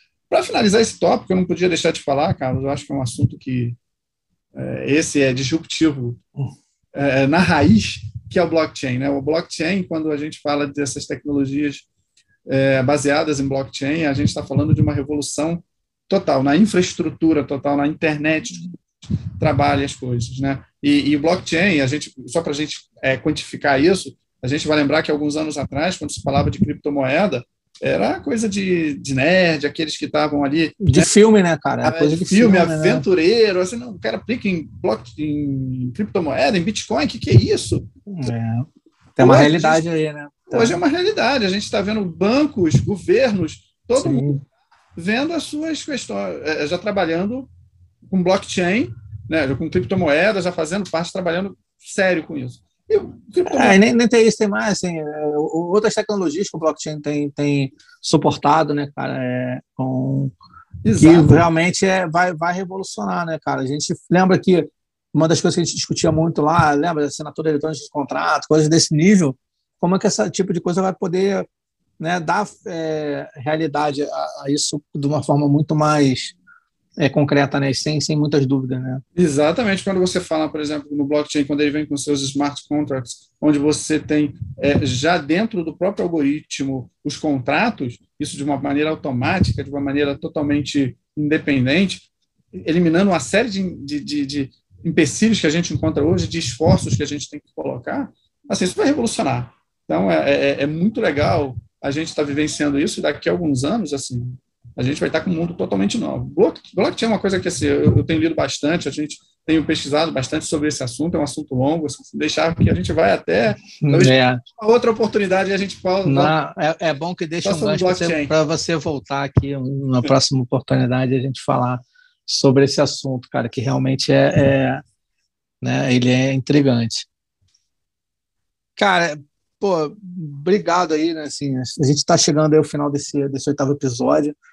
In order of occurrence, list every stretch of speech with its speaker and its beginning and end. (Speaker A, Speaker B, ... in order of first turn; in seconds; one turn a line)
Speaker A: 0.3-3.8
Speaker A: 4.5-6.2
Speaker A: 6.9-11.9
Speaker A: 12.5-18.7
Speaker A: 19.4-31.1
Speaker B: 30.8-33.0
Speaker A: 31.8-37.9
Speaker B: 38.1-40.8
Speaker A: 39.2-39.8
Speaker A: 40.5-44.3
Speaker B: 44.0-44.4
Speaker A: 45.0-47.5
Speaker A: 48.0-53.8
Speaker B: 53.5-60.3
Speaker A: 60.8-61.3
Speaker B: 61.0-71.5
Speaker B: 72.0-76.4
Speaker B: 77.0-79.0
Speaker A: 79.2-116.3
Speaker B: 113.8-114.4
Speaker B: 116.0-124.8
Speaker A: 117.4-118.3
Speaker B: 125.6-127.1
Speaker B: 128.8-134.4